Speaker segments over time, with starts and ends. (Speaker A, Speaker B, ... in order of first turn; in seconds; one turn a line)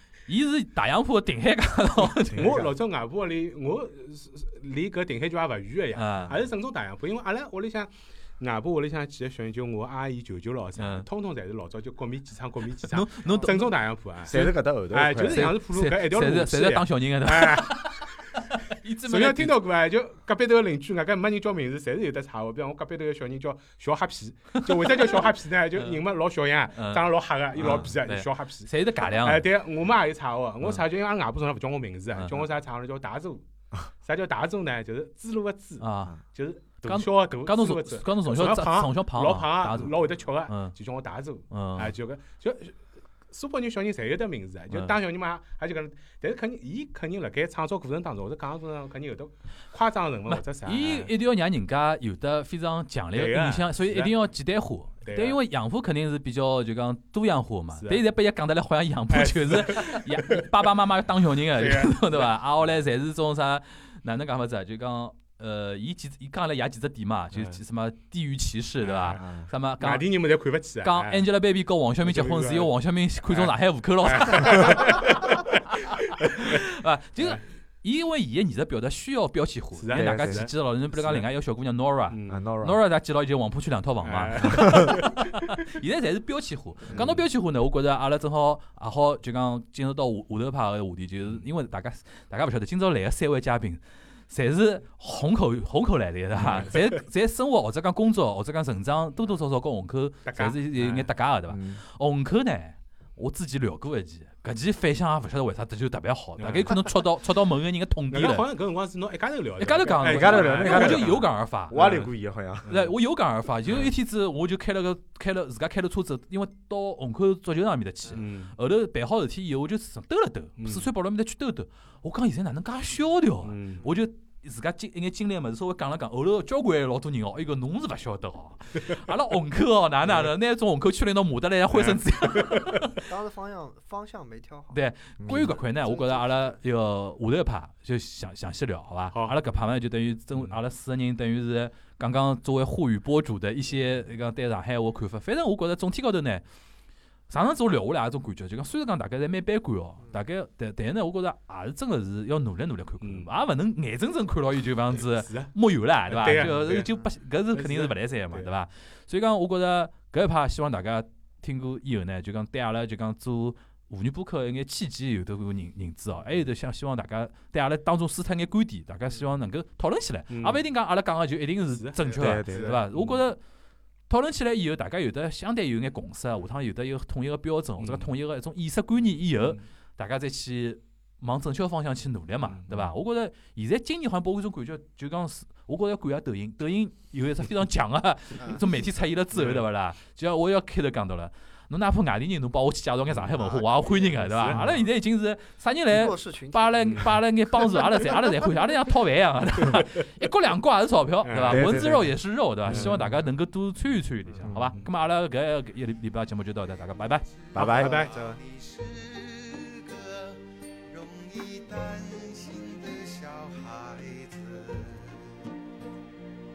Speaker A: 0.3-2.6
Speaker B: 2.3-2.7
Speaker C: 2.3-18.4
Speaker A: 6.0-6.4
Speaker A: 10.8-11.1
Speaker A: 12.8-13.7
Speaker B: 14.2-15.5
Speaker A: 15.2-19.6
Speaker C: 19.1-33.5
Speaker A: 24.6-26.0
Speaker A: 26.7-27.1
Speaker B: 27.6-27.9
Speaker A: 27.6-29.5
Speaker A: 32.1-32.4
Speaker C: 34.0-42.8
Speaker A: 35.8-36.2
Speaker A: 36.8-40.7
Speaker A: 41.5-41.9
Speaker C: 43.3-51.1
Speaker A: 44.7-45.0
Speaker A: 50.3-70.0
Speaker C: 53.1-54.1
Speaker C: 55.0-55.4
Speaker C: 57.8-58.0
Speaker C: 59.1-60.5
Speaker C: 61.5-62.3
Speaker C: 67.3-67.6
Speaker C: 68.8-69.2
Speaker B: 69.2-69.5
Speaker C: 69.8-71.3
Speaker A: 70.8-108.5
Speaker C: 72.0-72.7
Speaker C: 73.3-75.6
Speaker C: 76.3-76.6
Speaker C: 79.8-81.3
Speaker B: 79.9-80.5
Speaker C: 82.1-82.4
Speaker B: 82.3-82.8
Speaker C: 84.0-85.3
Speaker C: 86.9-87.2
Speaker C: 96.4-96.8
Speaker C: 100.3-101.1
Speaker B: 101.5-101.8
Speaker C: 106.4-107.0
Speaker C: 108.1-112.1
Speaker A: 109.6-111.8
Speaker B: 110.0-112.7
Speaker C: 112.6-112.9
Speaker A: 112.7-133.1
Speaker C: 118.1-118.5
Speaker C: 120.6-120.9
Speaker C: 123.4-123.8
Speaker C: 131.7-132.8
Speaker D: 133.1-134.8
Speaker A: 134.7-146.4
Speaker B: 135.2-135.6
Speaker D: 135.4-136.6
Speaker C: 139.1-139.4
Speaker A: 147.3-173.4
Speaker C: 153.0-153.3
Speaker C: 154.9-155.5
Speaker C: 156.1-156.9
Speaker C: 157.5-158.5
Speaker C: 170.3-170.6
Speaker C: 171.7-173.2
Speaker D: 172.0-172.7
Speaker B: 172.2-172.8
Speaker A: 174.1-207.3
Speaker C: 177.8-178.1
Speaker C: 189.3-189.6
Speaker C: 193.1-194.8
Speaker B: 194.5-194.8
Speaker D: 195.9-197.0
Speaker C: 196.8-197.1
Speaker C: 199.7-200.0
Speaker C: 201.2-201.8
Speaker B: 201.5-203.3
Speaker C: 202.7-203.1
Speaker B: 204.4-204.8
Speaker E: 206.8-215.5
Speaker B: 207.5-208.0
Speaker C: 207.6-208.1
Speaker D: 207.7-208.4